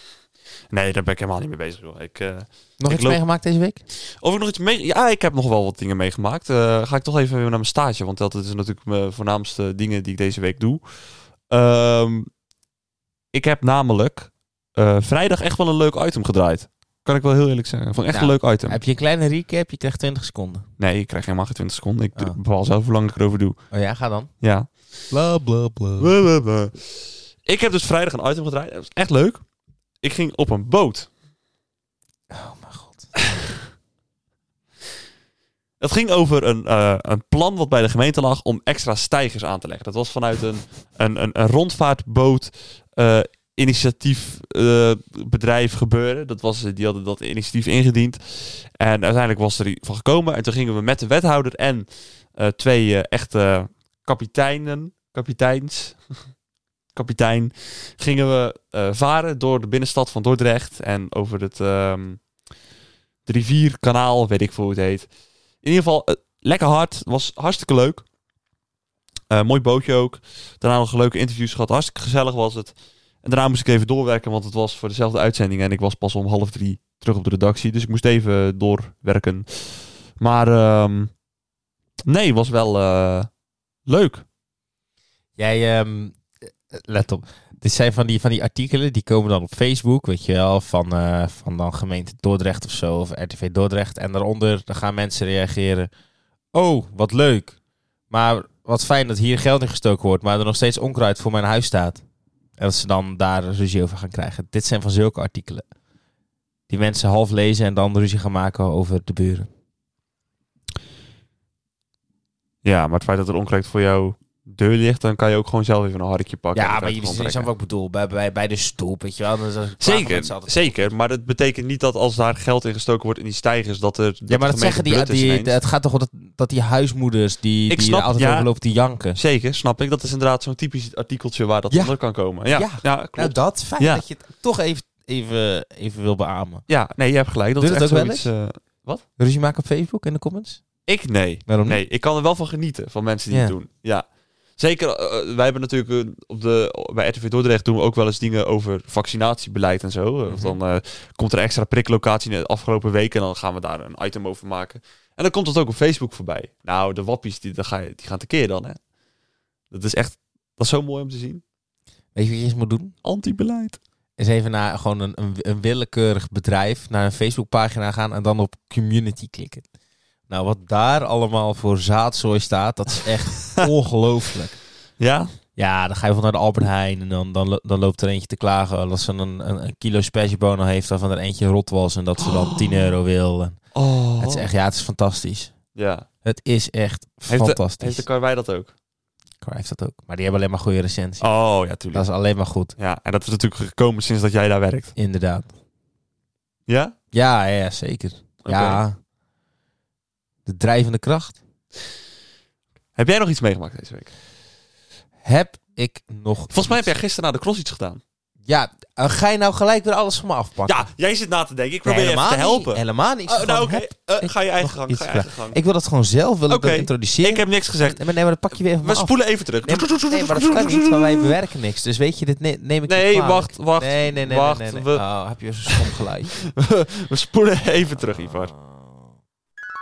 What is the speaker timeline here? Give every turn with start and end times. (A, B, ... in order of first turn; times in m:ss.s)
0:00.7-0:03.2 A
0:02.8-0:03.8 B
0:04.2-0:10.8 A
0:11.5-0:12.3 A
0:13.3-0:18.8 A
0:18.1-0:20.6 B
0:20.8-0:23.6 A
0:23.7-0:24.3 B
0:24.4-0:24.7 A
0:25.1-0:26.1 B
0:26.0-0:26.8 A
0:27.4-0:29.4 A
0:30.0-0:31.1 A
0:32.3-0:33.5 B
0:35.8-0:56.0 A
0:56.9-1:02.2 A
1:03.3-1:05.1 A
1:05.6-1:08.0 A
1:09.3-1:21.1 A
1:22.1-1:23.3 A
1:23.9-1:24.2 A
1:25.4-1:35.9 B
1:36.5-1:37.6 B
1:38.1-1:42.0 B
1:42.6-1:45.6 B
1:46.7-1:49.5 B
1:52.6-1:57.5 A
1:56.6-2:00.8 B
1:59.8-2:05.6 A
2:04.3-2:09.2 B
2:07.7-2:08.5 A
2:09.2-2:14.0 A
2:11.7-2:12.0 B
2:12.5-2:16.7 B
2:16.7-2:19.0 A
2:17.6-2:18.3 B
2:19.2-2:20.6 B
2:20.9-2:24.0 A
2:21.5-2:21.8 B
2:24.6-2:38.8 A
2:30.3-2:30.6 B
2:39.7-2:41.4 A
2:42.2-2:42.9 B
2:43.0-2:43.8 A
2:44.2-2:49.6 B
2:50.3-2:54.6 B
2:55.0-2:55.3 A
2:55.6-3:03.6 B
3:02.2-3:02.9 A
3:03.7-3:04.5 A
3:04.2-3:05.5 B
3:05.8-3:06.1 A
3:06.2-3:08.0 B
3:07.3-3:08.7 A
3:09.4-3:11.3 B
3:11.2-3:12.0 A
3:11.9-3:12.8 B
3:12.8-3:14.9 A
3:15.0-3:15.5 B
3:16.7-3:17.0 A
3:17.1-3:19.0 B
3:18.4-3:18.8 A
3:20.5-3:21.4 B
3:23.0-3:24.1 A
3:25.2-3:26.9 B
3:26.5-3:28.0 A
3:28.5-3:30.9 B
3:30.7-3:35.6 A
3:31.8-3:46.4 B
3:36.5-3:38.0 A
3:38.8-3:41.3 A
3:42.9-3:45.0 A
3:45.7-3:48.5 A
3:48.5-3:49.0 B